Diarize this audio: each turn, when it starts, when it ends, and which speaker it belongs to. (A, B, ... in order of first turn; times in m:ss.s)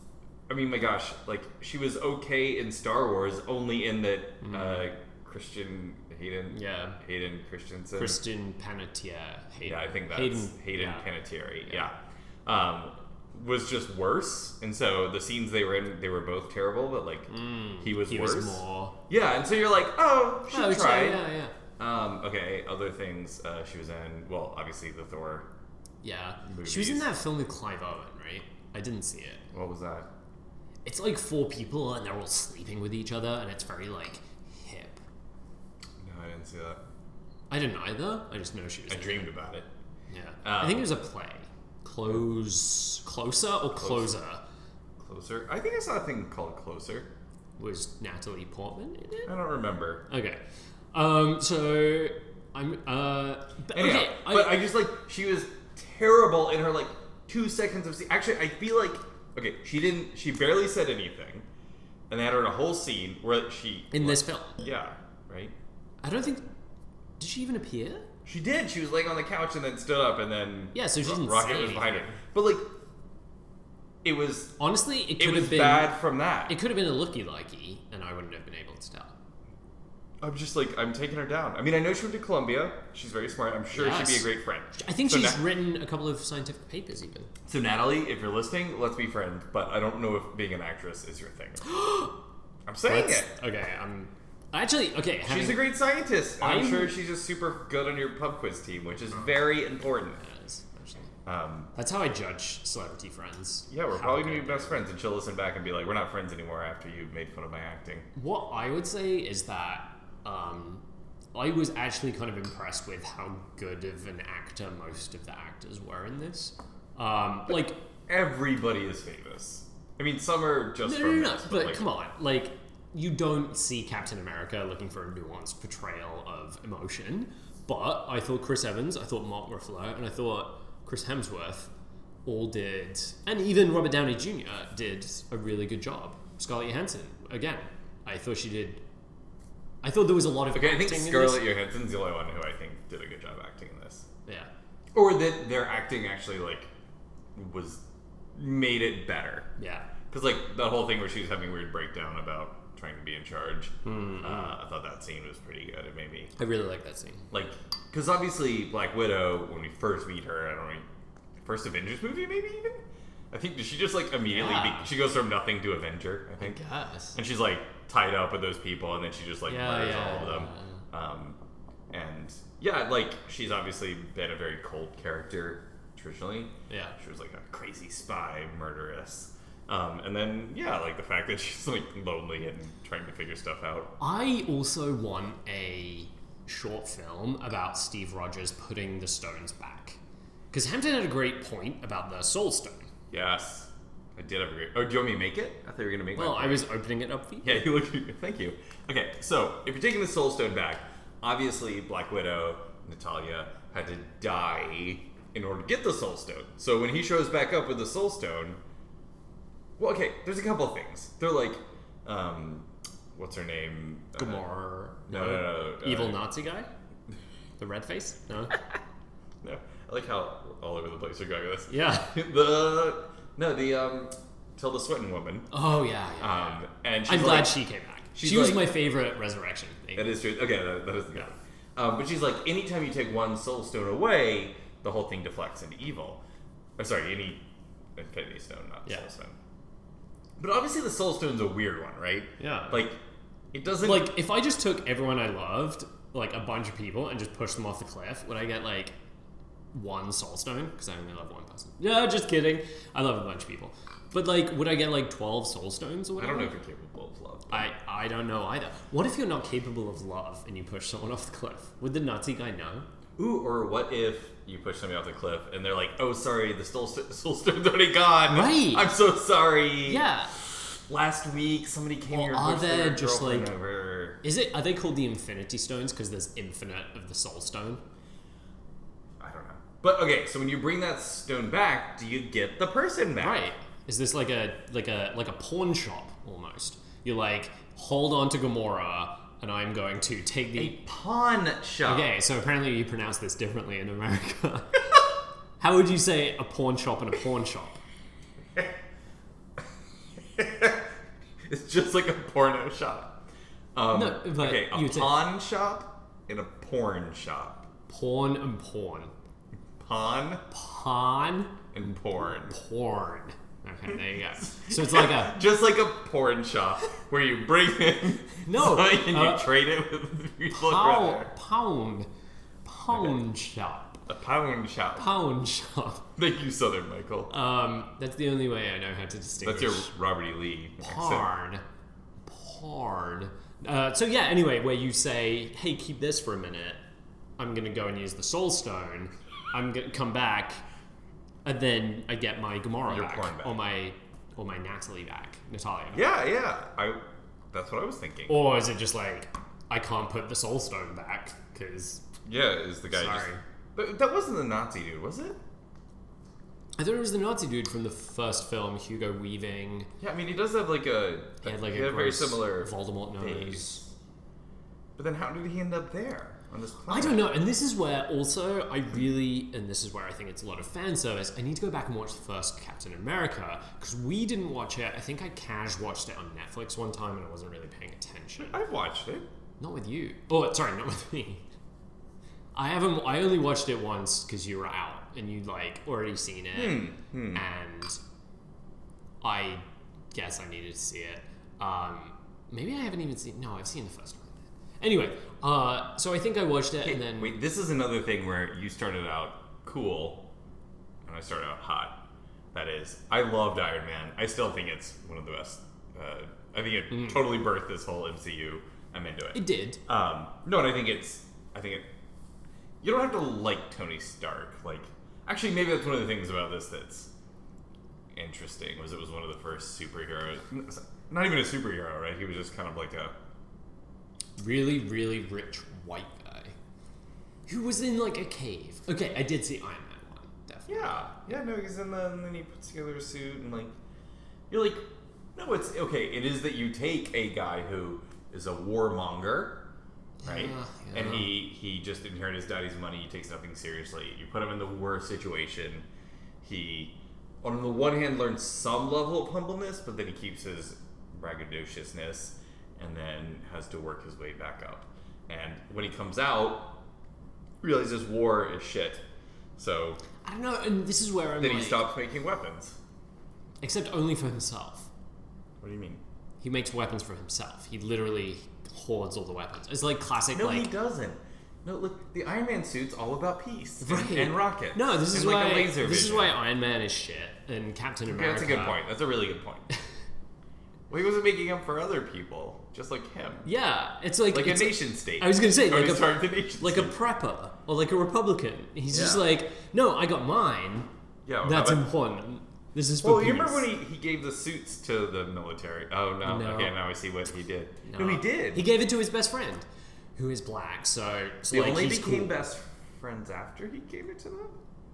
0:00.5-0:08.2 A
0:04.4-0:04.9 B
0:06.5-0:07.0 B
0:08.0-0:11.1 B
0:09.6-0:21.3 A
0:17.3-0:19.0 B
0:20.5-0:21.5 B
0:21.8-0:25.5 A
0:26.0-0:29.5 B
0:26.4-0:27.1 A
0:29.5-0:30.1 A
0:30.8-0:35.0 B
0:36.0-0:36.8 A
0:37.5-0:39.3 B
0:38.9-0:39.7 A
0:40.1-0:44.4 B
0:40.4-0:41.0 A
0:43.8-0:44.1 A
0:45.0-0:47.1 A
0:47.6-0:49.3 B
0:49.3-0:50.0 A
0:50.1-0:50.4 B
0:50.9-0:54.6 B
0:53.7-1:01.5 A
1:02.1-1:05.5 A
1:03.9-1:04.6 B
1:06.0-1:06.4 B
1:07.2-1:08.1 B
1:08.2-1:12.7 A
1:10.7-1:12.2 B
1:14.0-1:14.6 A
1:14.6-1:15.9 B
1:15.2-1:16.6 A
1:16.5-1:19.1 B
1:20.2-1:25.4 A
1:23.7-1:27.3 B
1:27.5-1:31.7 A
1:31.6-1:32.1 B
1:32.7-1:33.3 A
1:32.8-1:35.7 B
1:35.3-1:40.2 A
1:36.4-1:37.0 B
1:40.2-1:41.1 B
1:41.3-1:41.7 A
1:41.8-1:44.8 B
1:43.7-1:48.1 A
1:48.2-1:50.8 B
1:51.3-1:57.8 B
1:58.1-2:01.9 A
2:00.8-2:11.7 B
2:12.2-2:18.8 B
2:19.8-2:21.5 B
2:20.5-2:24.1 A
2:25.0-2:26.7 A
2:27.4-2:27.8 A
2:28.4-2:29.5 A
2:29.6-2:29.9 B
2:30.1-2:36.3 A
2:33.8-2:34.6 B
2:36.4-2:37.3 B
2:37.3-2:40.9 A
2:41.4-2:46.6 A
2:44.3-2:44.9 B
2:46.4-2:47.2 B
2:47.1-2:51.4 A
2:49.5-2:50.8 B
2:51.9-3:04.0 A
2:56.7-2:57.0 B
3:04.0-3:10.0 B
3:10.5-3:12.9 B
3:13.1-3:16.7 A
3:16.2-3:17.7 B
3:17.4-3:28.6 A
3:29.8-3:34.4 A
3:34.2-3:36.7 B
3:35.1-3:36.2 A
3:37.6-3:38.6 B
3:39.4-3:45.5 A
3:41.7-3:42.2 B
3:45.5-3:50.2 B
3:46.2-3:47.6 A
3:48.2-3:48.7 A
3:50.0-3:56.2 A
3:56.8-3:57.4 A
3:58.0-3:59.4 A
4:00.4-4:03.0 A
4:02.4-4:02.9 B
4:03.5-4:04.1 A
4:03.8-4:09.0 B
4:09.7-4:16.6 B
4:16.2-4:17.7 A
4:17.5-4:22.9 B
4:23.2-4:34.2 A
4:28.3-4:28.9 B
4:29.8-4:30.3 B
4:32.1-4:33.5 B
4:34.2-4:37.8 B
4:39.2-4:43.5 A
4:43.2-4:50.8 B
4:50.6-4:52.1 A
4:51.8-4:55.0 B
4:55.6-4:57.8 B
5:00.2-5:00.9 A
5:01.5-5:03.2 A
5:03.8-5:07.7 A
5:03.9-5:05.2 B
5:07.9-5:09.1 B
5:09.8-5:10.4 A
5:10.5-5:11.6 B
5:11.7-5:12.6 A
5:12.2-5:15.4 B
5:14.4-5:21.3 A
5:18.4-5:19.5 B
5:20.5-5:22.1 B
5:22.6-5:24.0 B
5:22.9-5:23.2 A
5:24.1-5:25.1 A
5:25.0-5:26.0 B
5:26.2-5:27.3 A
5:27.3-5:29.9 B
5:29.4-5:31.3 A
5:30.8-5:31.6 B
5:32.2-5:36.8 B
5:37.4-5:40.6 B
5:41.4-5:46.1 B
5:42.9-5:43.6 A
5:45.9-5:47.0 A
5:47.5-5:48.4 A
5:48.3-5:52.0 B
5:52.2-5:55.4 A
5:52.9-5:53.4 B
5:56.8-5:59.9 B
6:00.0-6:03.9 A
6:01.4-6:03.8 B
6:05.0-6:07.3 A
6:06.9-6:18.6 B
6:18.4-6:19.3 A
6:19.6-6:21.4 B
6:22.6-6:28.0 B
6:26.5-6:27.4 A
6:29.2-6:37.4 B
6:36.8-6:40.2 A
6:41.0-6:42.0 A
6:42.5-6:51.9 A
6:46.9-6:47.2 B
6:49.3-6:49.8 B
6:52.8-6:57.1 A
6:58.2-7:03.1 A
7:04.4-7:06.6 B
7:07.5-7:11.2 B
7:10.7-7:13.7 A
7:14.5-7:19.6 A
7:20.2-7:21.3 B
7:20.2-7:25.8 A
7:26.4-7:36.8 A
7:37.6-7:39.0 A
7:39.6-7:40.0 A
7:40.2-7:41.8 B
7:41.4-7:42.8 A
7:43.6-7:44.9 B
7:45.6-7:46.0 A
7:46.4-7:50.7 B
7:50.3-7:56.4 A
7:53.8-7:58.8 B
7:58.1-7:59.7 A
8:00.9-8:03.5 A
8:03.4-8:10.9 B
8:04.3-8:06.9 A
8:08.9-8:09.2 A
8:11.3-8:11.8 A
8:11.4-8:13.7 B
8:13.0-8:18.6 A
8:16.2-8:16.8 B
8:17.9-8:22.4 B
8:21.5-8:24.6 A